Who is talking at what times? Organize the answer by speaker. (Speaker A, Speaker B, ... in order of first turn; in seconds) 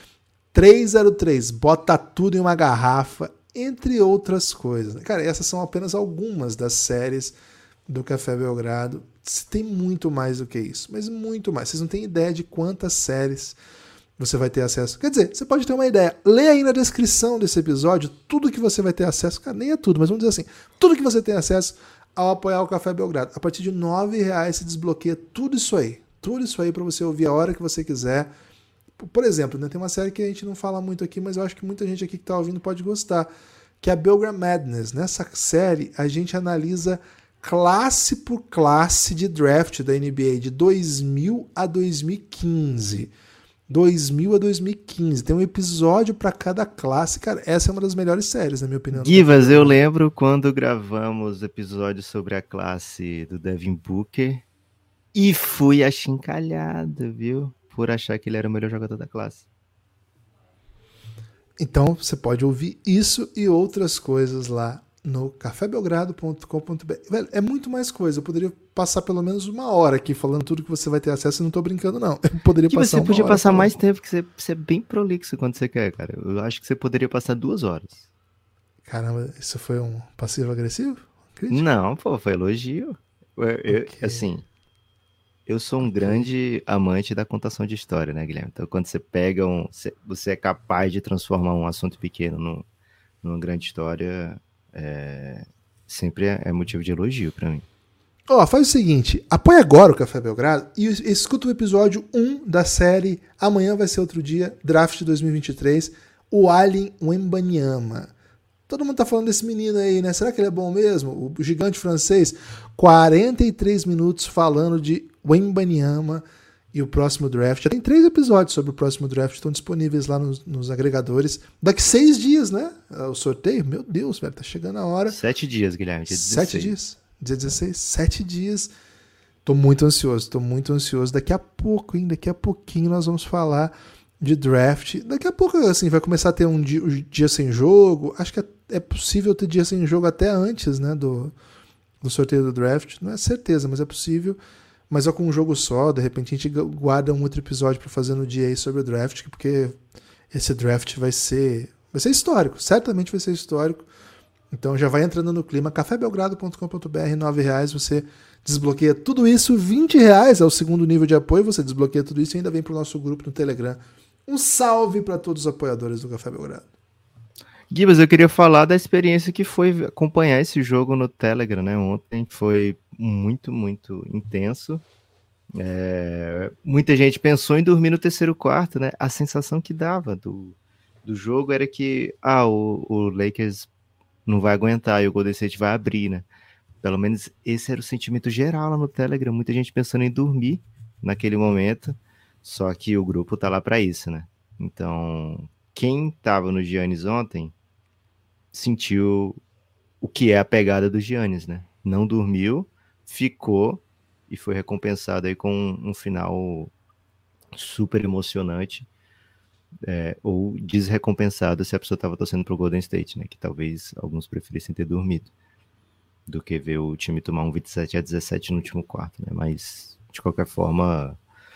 Speaker A: 0.5-7.4, 7.9-13.6, 14.2-28.3, 29.0-33.3, 33.8-43.1, 43.7-49.8, 61.6-73.7, 78.8-81.6, 83.7-84.2, 85.8-86.3, 98.3-108.1, 108.7-125.2, 126.1-128.7, 129.4-141.3, 142.0-144.4, 144.9-149.8, 150.3-153.9, 154.5-166.7
Speaker B: 48.9-54.4, 55.1-59.5, 72.7-78.1, 81.5-84.5, 85.5-92.7, 93.2-97.7, 125.1-126.8, 167.7-174.8, 175.6-183.7, 184.3-186.3, 186.8-197.5, 198.5-199.4, 200.0-206.7, 207.6-208.9, 209.8-215.3, 216.3-221.2